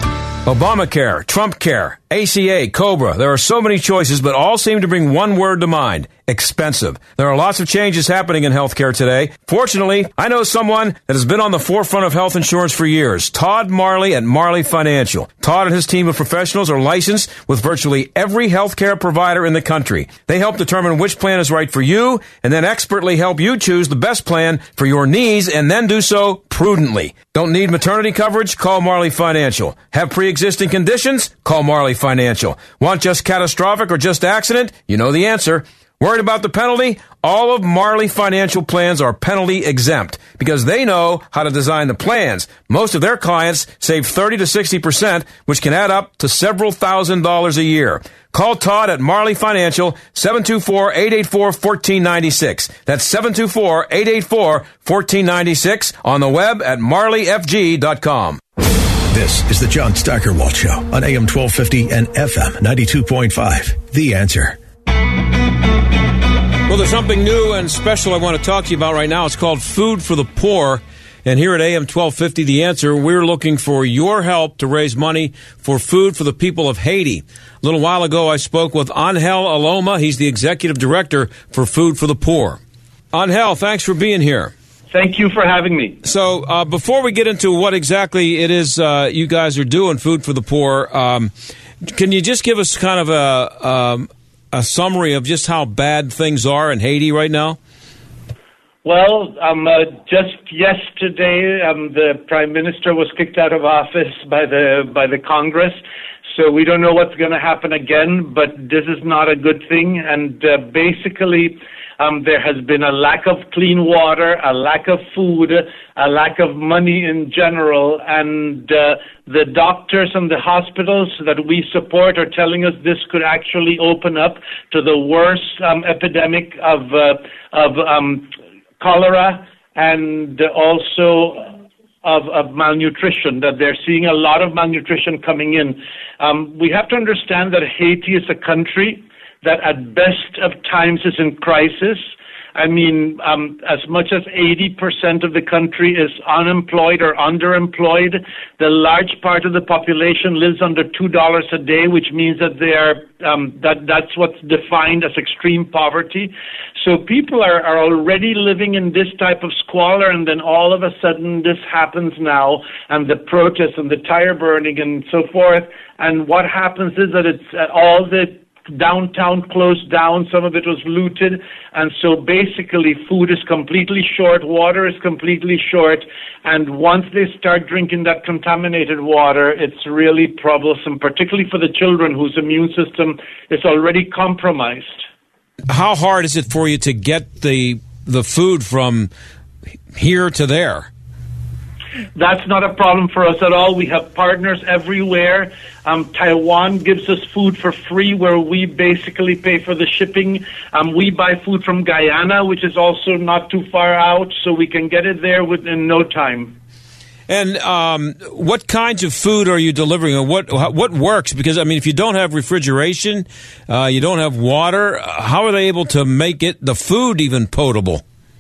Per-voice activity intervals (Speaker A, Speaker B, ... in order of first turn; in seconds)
Speaker A: 0.5-58.4, 66.7-82.6, 83.1-84.5, 86.0-97.6, 185.7-189.1, 189.9-190.9, 207.3-218.0
Speaker B: 59.1-64.6
Speaker C: 84.9-86.0, 98.8-105.8, 106.3-185.0, 192.2-206.6